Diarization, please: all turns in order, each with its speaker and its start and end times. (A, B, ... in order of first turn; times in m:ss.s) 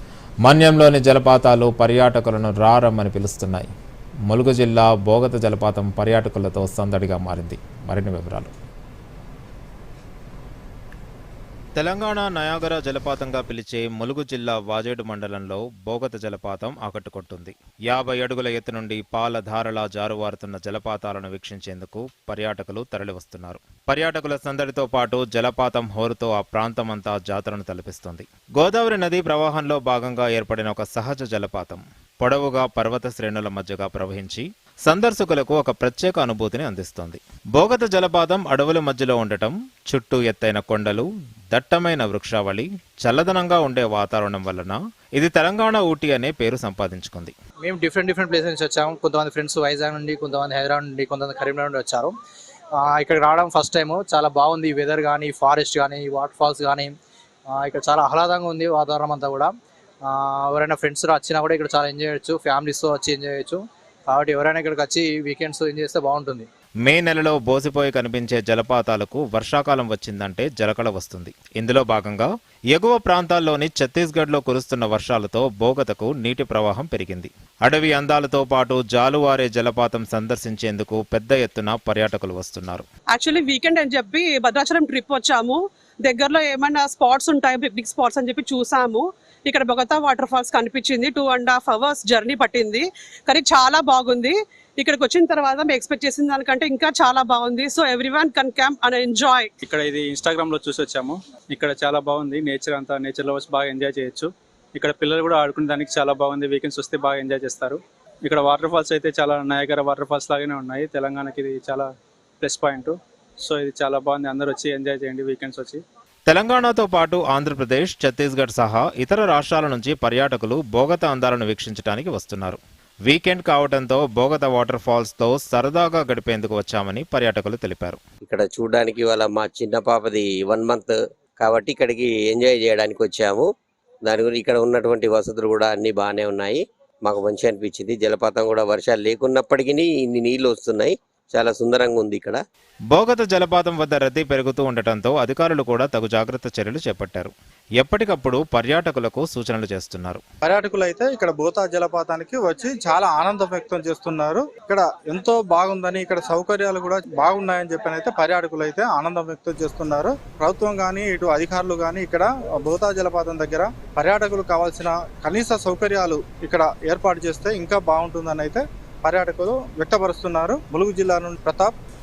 0:00.5-0:03.7 A
0:04.3-0:08.5 A
0:11.8-0:47.3 A
0:47.6-0:52.1 B
0:48.1-0:52.1 C
0:52.8-0:56.8 B
0:53.6-0:54.4 C
0:55.2-0:56.2 C
0:57.6-0:59.4 B
0:57.8-0:59.5 C
1:00.1-1:01.7 B
1:00.7-1:03.6 C
1:04.1-1:04.7 B
1:04.2-1:06.5 C
1:06.9-1:22.9 A
1:23.1-1:39.5 D
1:39.6-1:51.9 C
1:52.4-1:55.8 C
1:56.3-2:08.0 A
2:08.2-2:13.5 E
2:14.0-2:22.4 E
2:22.9-2:30.2 A
2:30.4-2:51.7 F